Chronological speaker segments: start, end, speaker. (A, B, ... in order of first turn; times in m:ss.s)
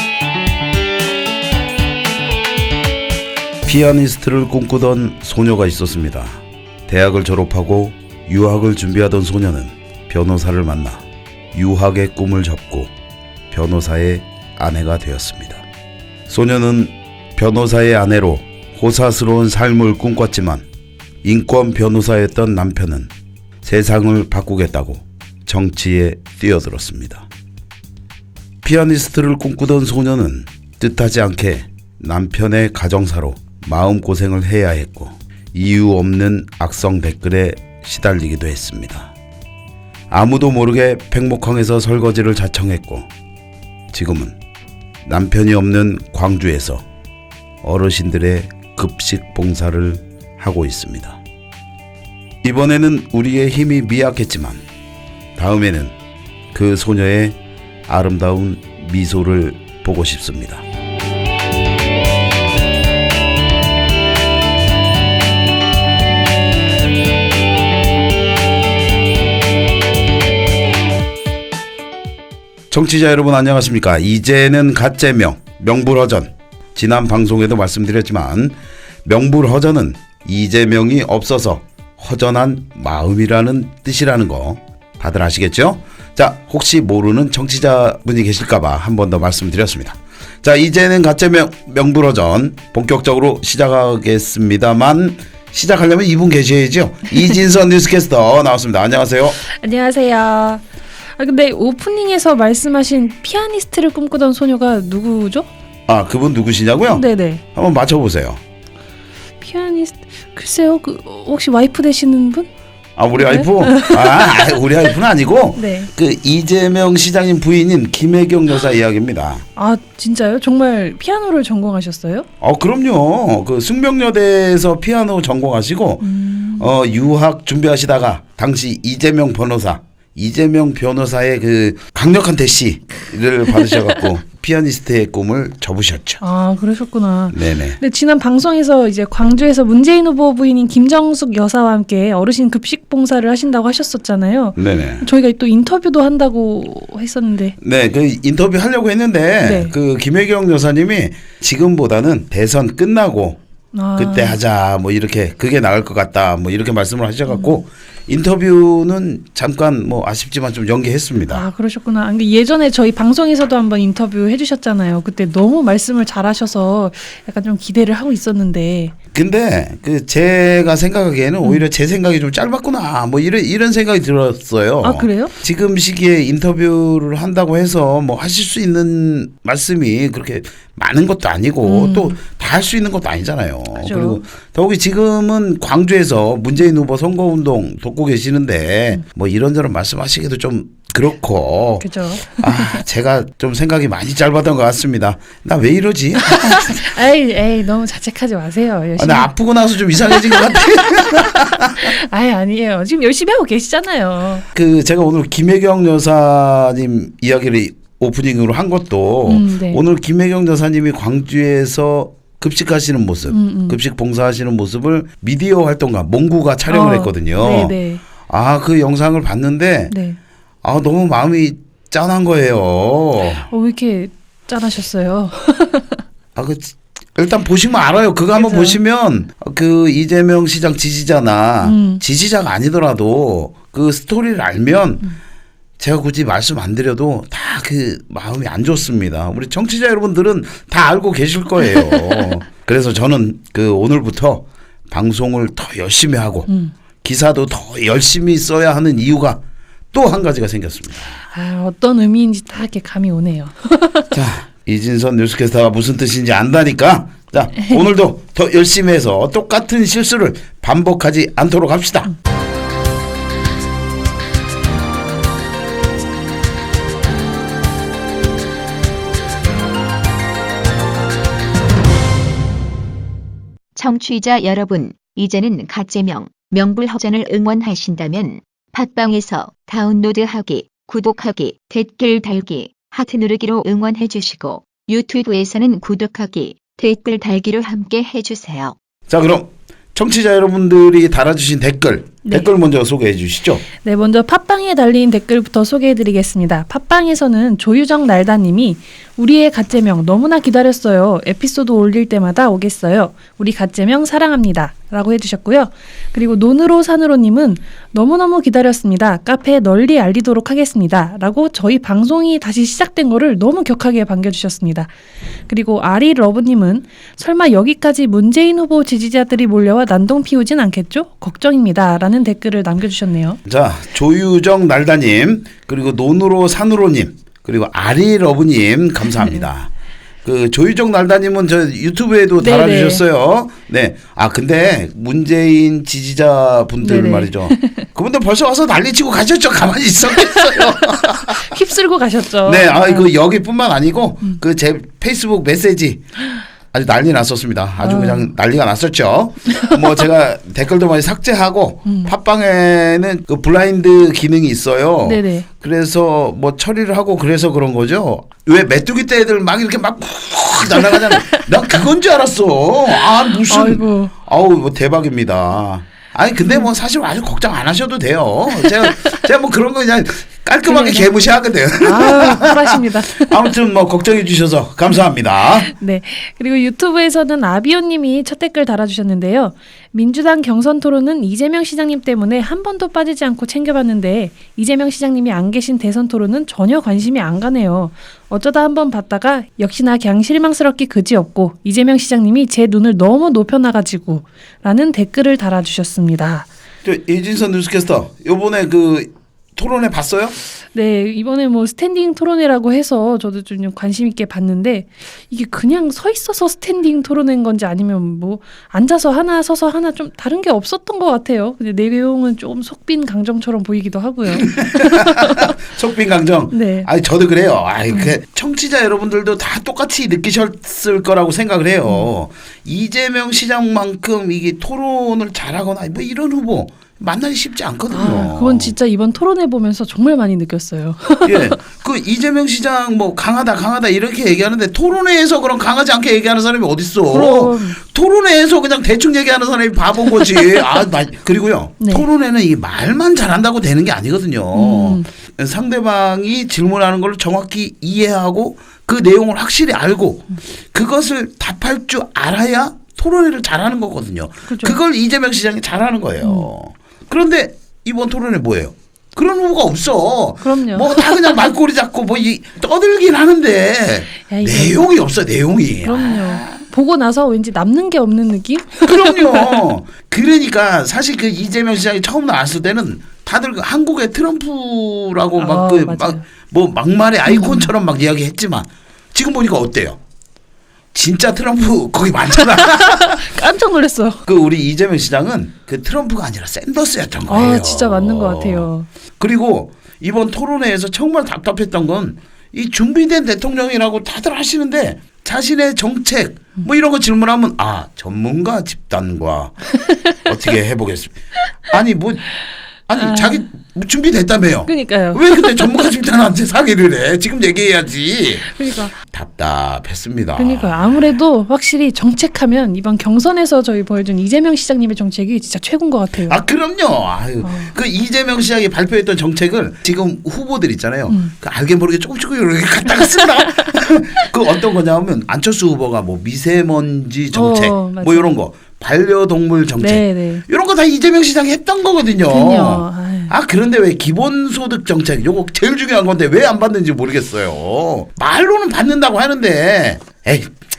0:03.6-0:12.9 A
0:13.5-0:15.6 A
0:16.3-0:20.6 A
0:21.2-0:23.1 A
0:23.6-0:27.3 A
0:28.6-0:39.1 A
0:40.1-0:43.1 A
0:43.9-0:44.4 A
0:45.0-0:46.8 A
0:47.6-0:51.2 A
0:52.4-0:54.6 A
0:55.4-0:55.9 A
0:56.5-1:00.6 A
1:12.7-1:39.4 A
1:39.4-1:40.6 B
1:41.2-1:45.5 B
1:45.9-1:48.4 A
1:46.9-1:47.4 B
1:49.4-1:52.5 B
1:53.0-1:59.4 A
1:53.2-1:54.6 B
1:55.6-1:55.9 B
1:59.6-2:02.3 B
2:02.4-2:16.2 A
2:06.0-2:06.7 B
2:16.2-2:27.6 B
2:17.3-2:17.8 A
2:24.6-2:25.0 A
2:27.6-2:33.4 A
2:29.4-2:29.7 B
2:33.7-2:34.4 B
2:34.0-2:41.5 A
2:37.3-2:37.6 B
2:41.3-2:48.9 B
2:49.1-3:16.8 A
2:54.8-2:55.3 B
3:01.6-3:02.2 B
3:03.8-3:04.2 B
3:11.8-3:12.8 B
3:16.2-3:19.3 B
3:19.0-3:21.9 A
3:20.0-3:24.4 B
3:24.5-3:37.8 A
3:29.3-3:29.8 B
3:33.3-3:33.8 B
3:36.7-3:38.0 B
3:38.3-3:39.9 A
3:39.9-3:40.2 B
3:40.6-3:43.5 A
3:43.5-3:46.0 B
3:46.4-3:55.0 A
3:48.4-3:48.8 B
3:51.6-3:52.0 B
3:55.8-4:06.5 A
4:06.5-4:06.7 B
4:07.0-4:09.4 A
4:09.9-4:11.2 A
4:11.3-4:14.1 B
4:14.1-4:22.1 A
4:33.7-4:48.7 C
4:49.1-4:53.6 A
4:52.2-4:52.5 B
4:53.8-5:14.9 B
5:15.5-5:23.4 B
5:23.4-5:29.7 A
5:29.2-5:29.4 B
5:30.2-5:41.6 A
5:32.4-5:33.0 B
5:36.8-5:37.8 B
5:40.2-5:43.1 B
5:42.4-5:46.1 A
5:46.7-6:15.7 A
5:47.8-5:48.3 B
5:49.5-5:49.8 B
5:51.8-5:52.1 B
5:55.0-5:55.5 B
6:03.5-6:04.1 B
6:08.7-6:09.1 B
6:10.7-6:11.1 B
6:11.8-6:13.4 B
6:15.6-6:36.5 B
6:36.8-6:40.3 A
6:40.7-6:55.6 B
6:54.3-7:08.8 A
6:56.5-6:56.9 B
7:07.9-7:11.6 B
7:11.2-7:46.6 A
7:17.1-7:17.8 B
7:21.8-7:22.0 B
7:24.5-7:25.0 B
7:34.5-7:34.8 B
7:36.2-7:36.5 B
7:40.4-7:41.4 B
7:44.3-7:44.8 B
7:45.8-7:49.6 B
7:48.8-8:00.0 A
7:55.4-7:56.2 B
7:57.2-7:57.7 B
8:00.9-8:03.2 A
8:02.5-8:04.2 B
8:04.3-8:19.6 A
8:07.3-8:08.9 B
8:20.2-8:22.2 A
8:22.9-8:31.1 A
8:23.0-8:23.4 B
8:24.7-8:25.7 B
8:28.4-8:28.9 B
8:30.4-8:36.4 B
8:36.3-9:00.5 A
8:37.4-8:37.7 B
8:41.1-8:41.3 B
8:47.3-8:48.3 B
8:49.8-8:50.4 B
8:52.3-8:53.3 B